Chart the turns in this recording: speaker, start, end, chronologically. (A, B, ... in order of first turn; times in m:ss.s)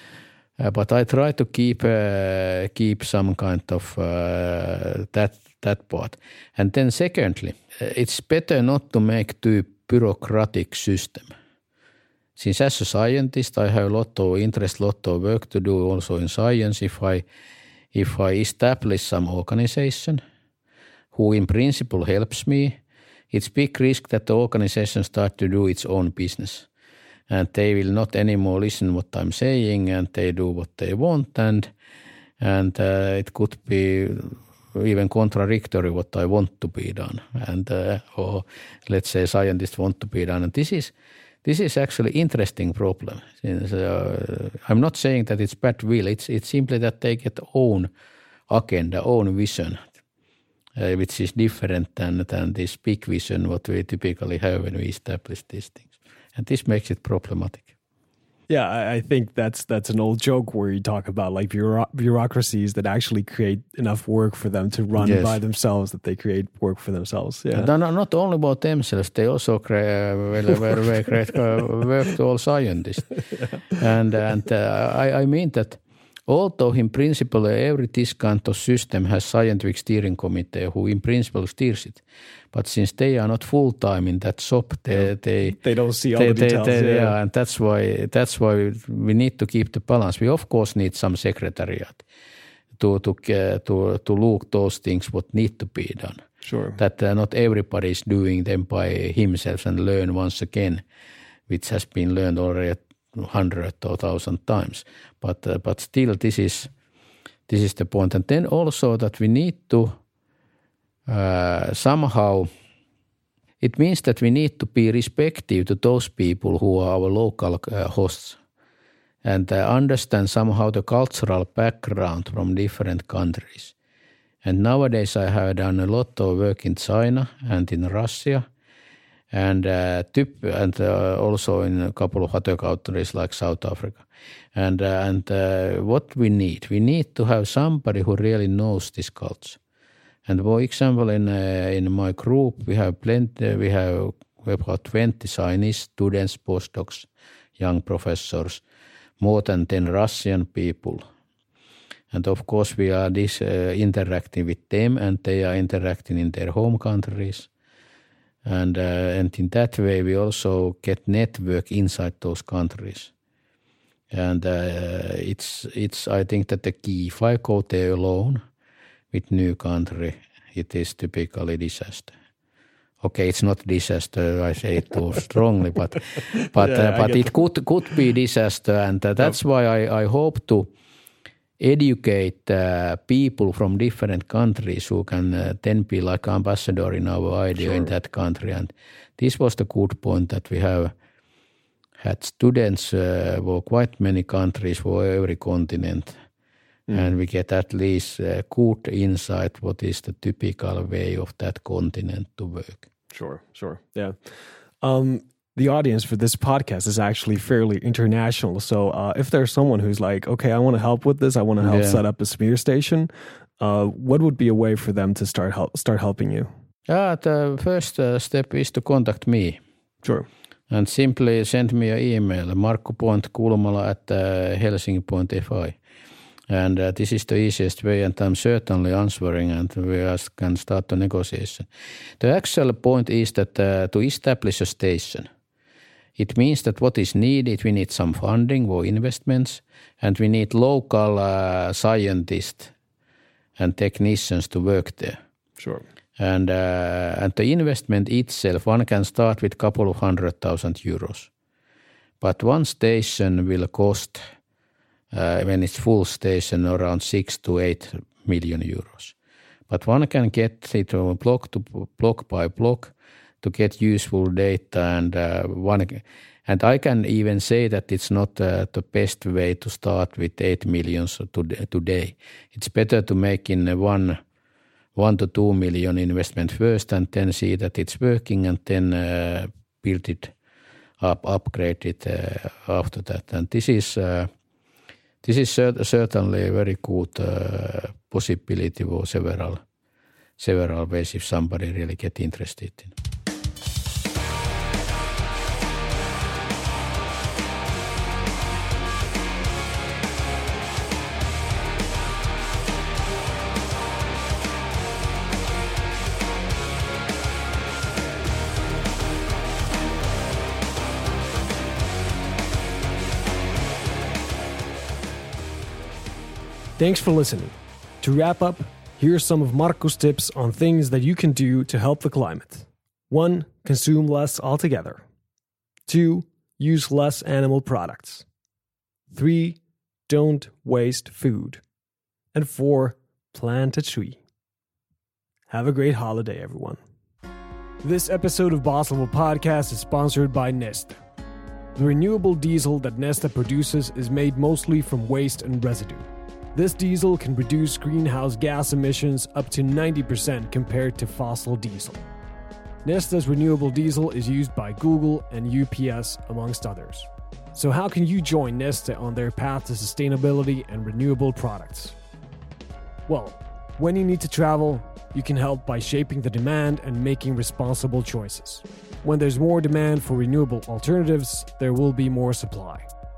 0:00.6-0:11.3 A
0:12.4-0:17.2 A
0:17.9-0:20.2 A
0:21.1-0:22.8 A
0:23.3-0:26.7 A
0:27.3-0:31.7 A
0:32.4-0:40.9 A
0:41.4-0:47.9 A
0:48.5-0:49.8 A
0:50.8-0:57.7 A
0:58.5-1:07.7 B
1:05.0-1:05.4 A
1:07.5-1:13.2 A
1:13.7-1:25.6 A
1:25.0-1:27.2 B
1:26.2-1:32.0 A
1:32.8-1:36.2 A
1:36.4-1:36.8 B
1:36.8-1:40.8 A
1:41.5-1:46.7 A
1:47.5-1:49.9 A
1:51.1-1:52.5 A
1:53.6-1:58.4 A
1:59.2-2:03.7 A
2:04.4-2:08.4 A
2:09.3-2:19.6 A
2:20.3-2:28.6 A
2:29.2-2:31.1 A
2:32.1-2:37.5 A
2:38.5-2:43.1 A
2:44.1-2:48.4 A
2:49.1-2:52.1 A
2:53.0-3:00.7 A
2:56.4-2:57.4 B
3:01.6-3:10.9 A
3:07.6-3:07.9 B
3:12.0-3:16.2 A
3:16.9-3:17.2 B
3:16.9-3:22.9 A
3:23.1-3:24.3 B
3:24.8-3:36.5 B
3:31.6-3:32.0 A
3:36.9-3:39.6 A
3:40.0-3:40.3 B
3:40.7-3:45.8 A
3:46.5-3:51.7 A
3:52.2-3:55.3 A
3:56.2-4:02.7 A
4:03.6-4:05.2 A
4:05.6-4:05.8 B
4:06.2-4:11.3 A
4:12.2-4:14.2 A
4:15.1-4:19.2 A
4:19.7-4:34.2 A
4:35.0-4:40.3 A
4:41.0-4:44.3 A
4:45.2-4:49.6 A
4:50.4-4:52.9 A
5:16.8-5:25.0 B
5:25.9-5:28.3 B
5:29.1-5:31.6 B
5:32.3-5:34.2 B
5:35.5-5:36.8 B
5:37.8-5:41.0 B
5:41.8-5:52.0 B
5:52.8-6:02.0 B
6:03.1-6:12.9 B